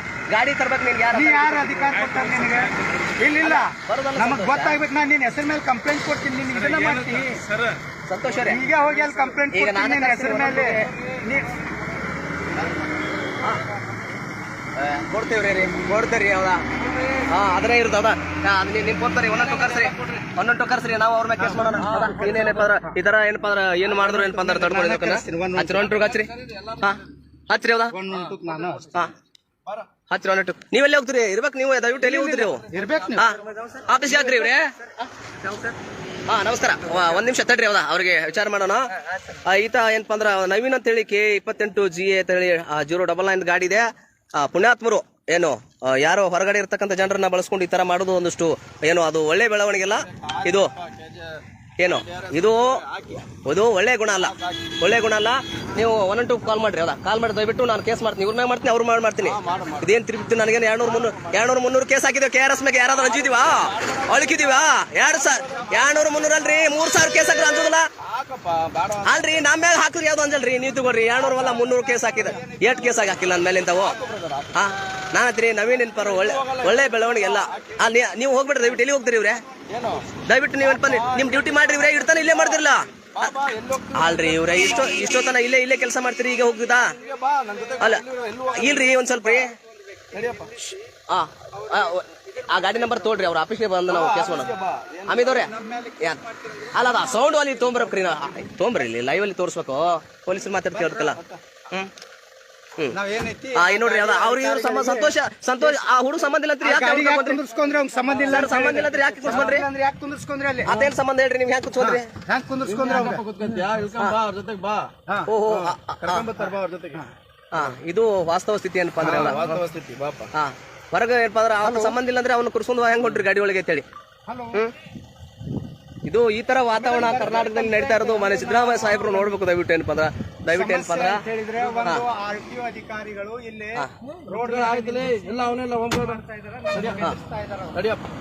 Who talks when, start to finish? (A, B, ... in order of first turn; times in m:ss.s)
0:00.3-0:04.8 A
0:01.1-0:07.4 B
0:01.9-0:02.7 C
0:06.5-0:07.8 C
0:08.1-0:08.6 A
0:08.4-0:11.6 B
0:09.5-0:10.9 A
0:12.5-0:12.9 D
0:14.8-0:16.6 A
0:16.8-0:17.2 D
0:17.3-0:28.0 A
0:19.3-0:20.2 D
0:21.4-0:22.9 B
0:21.7-0:22.7 D
0:23.9-0:26.0 B
0:25.8-0:26.9 D
0:27.9-0:29.0 B
0:28.1-0:29.1 D
0:30.1-0:35.8 A
0:32.0-0:33.3 B
0:32.5-0:33.2 D
0:36.3-0:50.7 A
0:50.1-0:53.3 D
0:51.8-0:52.8 A
0:53.4-1:07.8 A
0:54.2-0:54.8 D
0:59.2-0:59.9 D
1:00.8-1:01.4 D
1:03.0-1:04.5 D
1:05.1-1:06.2 D
1:08.0-1:09.4 D
1:09.0-1:14.0 A
1:11.2-1:11.6 D
1:11.6-1:13.3 B
1:13.6-1:14.5 D
1:14.5-1:19.4 A
1:15.9-1:17.8 D
1:19.7-1:20.1 D
1:20.3-1:23.3 A
1:20.6-1:22.6 D
1:23.2-1:25.3 D
1:23.9-1:26.9 A
1:26.9-1:29.4 D
1:27.8-1:29.5 A
1:30.1-1:30.5 D
1:31.1-1:34.5 A
1:32.6-1:32.8 B
1:33.9-1:35.5 D
1:35.1-1:36.2 A
1:35.2-1:36.9 B
1:36.7-1:41.2 A
1:40.8-1:41.4 D
1:42.9-1:45.2 B
1:43.5-1:47.4 A
1:46.6-1:50.9 B
1:48.0-1:49.4 D
1:48.3-1:49.6 A
1:50.6-1:52.1 A
1:51.8-1:53.3 B
1:52.6-1:54.9 D
1:55.3-1:56.3 A
1:55.5-1:57.0 D
1:57.5-1:59.6 A
1:59.0-1:59.4 B
1:59.1-2:00.3 D
2:00.3-2:03.8 A
2:01.6-2:02.0 B
2:04.3-2:04.7 B
2:06.0-2:11.2 A
2:06.7-2:09.4 B
2:10.5-2:17.8 B
2:14.3-2:16.2 D
2:16.7-2:17.0 D
2:17.7-2:18.0 D